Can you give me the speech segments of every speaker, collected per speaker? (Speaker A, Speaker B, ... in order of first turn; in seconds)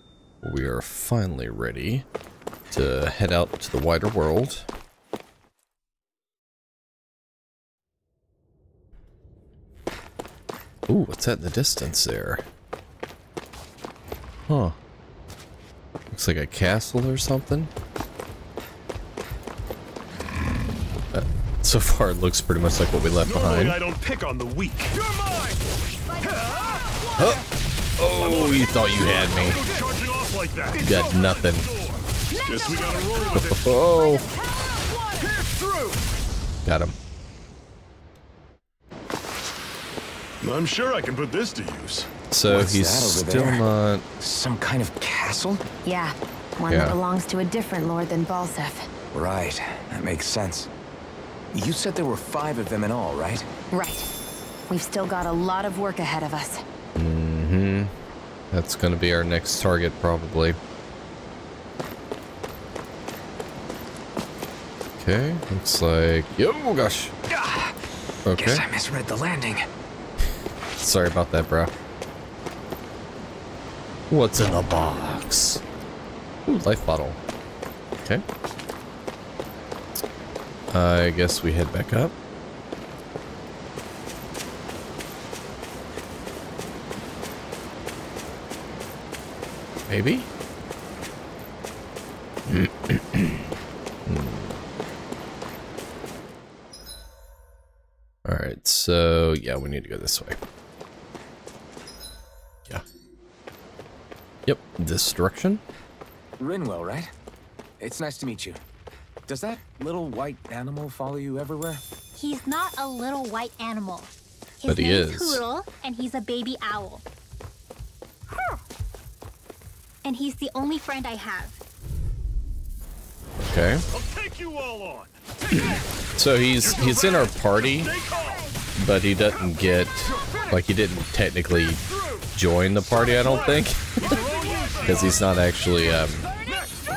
Speaker A: 0.4-2.1, 2.7-4.7, 10.9-12.4, 14.5-14.8, 16.1-17.7, 21.1-23.8, 27.2-27.5, 28.0-29.6, 30.8-31.7, 33.3-34.3, 36.6-37.0, 42.3-44.0, 46.7-47.0, 57.0-57.9, 58.5-60.6, 65.0-67.1, 68.2-68.6, 70.8-71.7, 74.1-75.6, 76.5-77.2, 80.7-82.1, 89.9-90.3, 92.5-93.5, 94.0-94.6, 98.2-100.4, 104.5-105.6, 114.7-115.4, 123.4-123.8, 125.5-127.9, 128.8-134.2, 134.8-136.3
Speaker B: 23.2-25.4, 26.2-27.0, 28.1-33.8, 40.4-42.1, 123.9-125.8, 126.5-128.5, 134.0-135.2, 136.4-136.8
Speaker C: 26.1-27.1, 32.3-33.3, 33.9-35.3, 45.8-48.9, 53.7-54.1, 54.7-56.6
Speaker D: 42.5-43.7, 44.2-45.6, 49.1-50.7, 51.5-53.5, 67.3-67.8, 68.3-69.7, 106.4-107.1, 107.8-108.6, 109.3-111.8
Speaker E: 112.1-117.0, 120.0-121.6